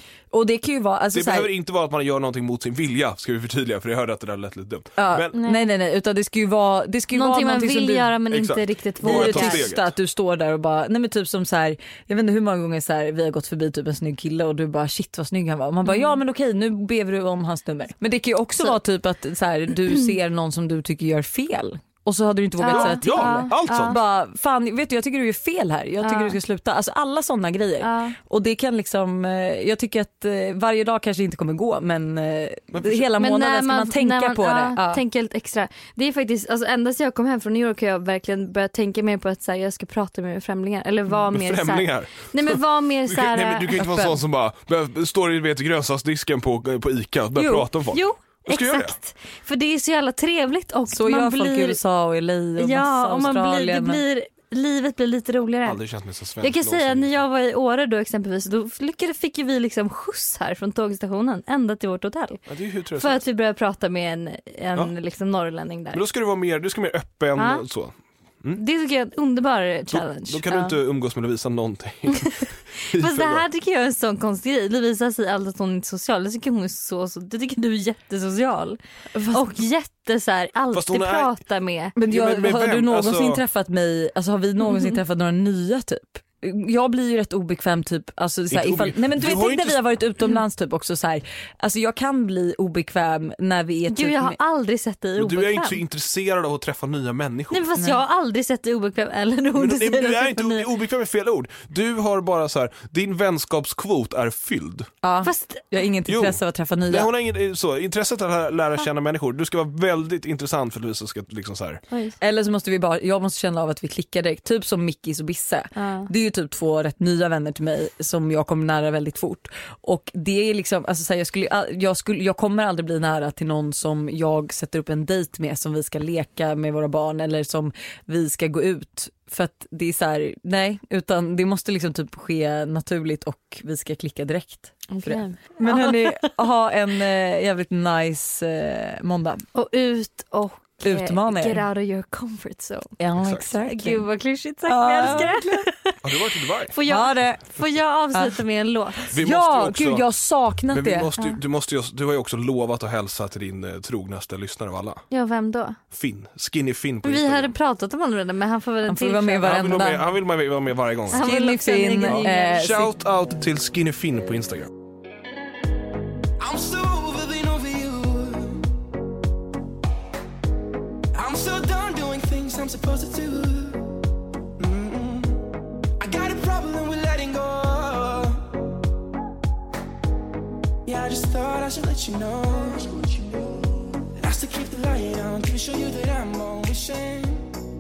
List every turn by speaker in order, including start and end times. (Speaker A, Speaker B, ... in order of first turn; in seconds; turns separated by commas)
Speaker A: 0.3-1.5, Speaker B: 1.1-5.3, Speaker A: 5.0-8.2, Speaker C: 5.3-5.7, Speaker C: 7.1-9.7, Speaker B: 8.3-9.9, Speaker A: 9.0-35.0, Speaker C: 15.9-16.1, Speaker C: 22.6-24.0, Speaker B: 22.7-24.0, Speaker C: 26.0-26.4, Speaker C: 27.8-28.2, Speaker B: 32.7-33.1, Speaker C: 33.2-43.7, Speaker B: 41.3-49.0, Speaker A: 43.8-44.2, Speaker A: 47.4-47.7, Speaker C: 47.9-51.8, Speaker A: 50.9-54.0, Speaker C: 52.6-55.8, Speaker B: 55.6-57.1, Speaker C: 56.4-62.4, Speaker B: 62.5-63.2, Speaker C: 63.0-66.0, Speaker B: 65.9-68.6, Speaker C: 67.4-67.6, Speaker C: 68.6-70.8, Speaker B: 69.9-73.5, Speaker C: 72.1-78.8, Speaker A: 79.1-79.5, Speaker C: 79.3-81.9, Speaker B: 80.7-81.4, Speaker A: 82.0-94.4, Speaker B: 82.0-83.4, Speaker B: 88.5-90.0, Speaker C: 93.9-95.8, Speaker B: 95.2-97.7, Speaker C: 97.5-100.7, Speaker B: 99.5-104.9, Speaker A: 105.0-107.1, Speaker C: 105.2-105.7, Speaker B: 106.1-111.8, Speaker C: 111.9-112.2, Speaker A: 112.2-139.4, Speaker C: 115.8-116.1, Speaker C: 134.9-136.2, Speaker C: 139.6-142.9, Speaker A: 140.8-141.6, Speaker A: 143.0-144.1, Speaker B: 143.2-143.5, Speaker C: 143.6-146.0, Speaker A: 144.7-145.7, Speaker B: 146.0-146.8, Speaker C: 146.7-149.1, Speaker A: 146.8-147.6, Speaker B: 149.1-150.1, Speaker A: 149.2-151.1, Speaker B: 150.7-155.1, Speaker C: 155.1-155.8, Speaker B: 155.9-157.5, Speaker C: 157.0-159.6, Speaker A: 158.9-160.1, Speaker B: 159.4-161.3, Speaker C: 161.1-162.7, Speaker A: 161.1-162.9, Speaker B: 162.1-164.7, Speaker D: 166.4-168.7, Speaker D: 171.1-174.0, Speaker D: 174.6-178.5, Speaker D: 180.8-187.5